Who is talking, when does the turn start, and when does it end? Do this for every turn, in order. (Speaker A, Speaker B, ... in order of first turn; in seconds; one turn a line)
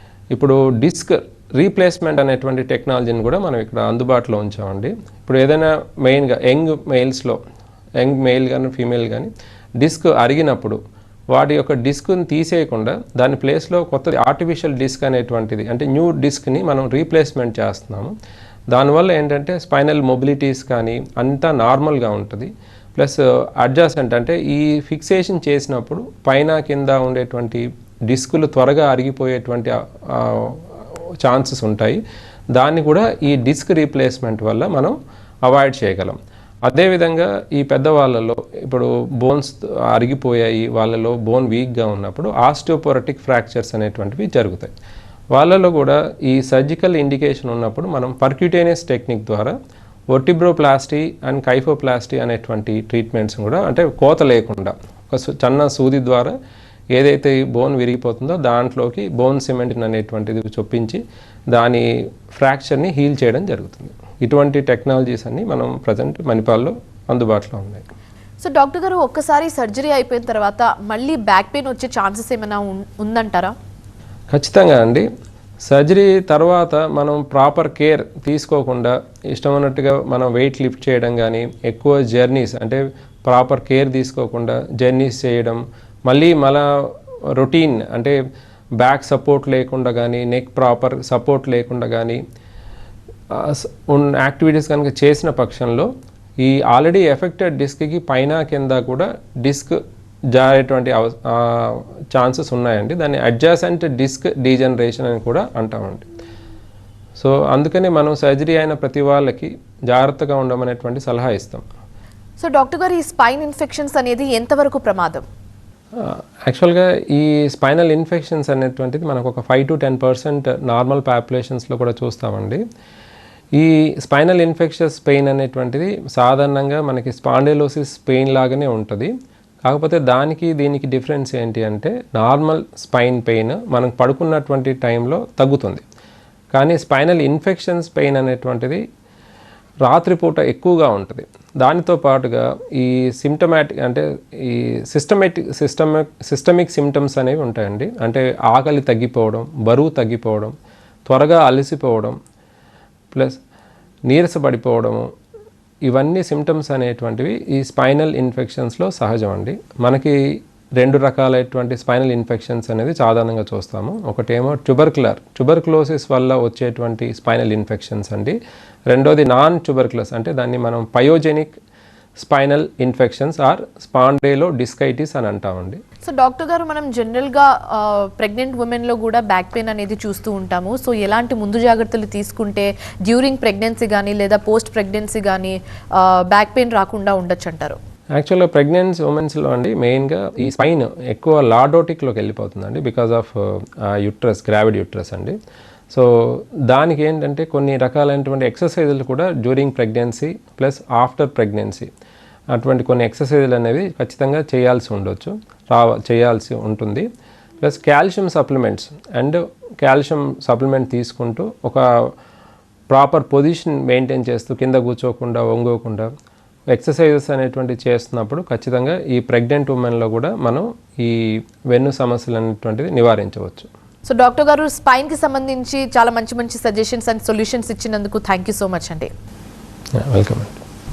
Speaker A: 0.3-7.4
Speaker A: 8.0-10.8
Speaker A: 11.3-18.1
Speaker A: 18.7-30.6
Speaker A: 31.2-32.0
Speaker A: 32.6-44.7
Speaker A: 45.3-49.5
Speaker A: 50.1-56.3
Speaker A: 56.9-61.0
Speaker A: 61.5-67.8
Speaker B: 68.4-73.5
Speaker A: 74.3-75.1
Speaker A: 75.7-86.7
Speaker A: 87.4-88.2
Speaker A: 88.8-92.2
Speaker A: 93.3-99.8
Speaker A: 100.3-106.1
Speaker A: 107.2-111.7
Speaker B: 112.4-115.2
Speaker A: 116.0-122.6
Speaker A: 123.6-129.1
Speaker A: 129.7-135.8
Speaker A: 136.5-138.8
Speaker A: 139.8-150.6
Speaker A: 151.1-152.2
Speaker A: 153.1-153.4
Speaker A: 154.1-155.1
Speaker A: 155.9-160.2
Speaker A: 160.8-168.4
Speaker A: 168.9-171.5
Speaker A: 172.2-175.8
Speaker B: 176.1-187.8
Speaker A: 188.2-195.4
Speaker A: 195.9-201.9
Speaker A: 202.5-207.1
Speaker A: 207.6-211.8
Speaker A: 212.9-216.1
Speaker A: 216.7-223.7
Speaker B: 224.1-229.1
Speaker A: 230.0-230.6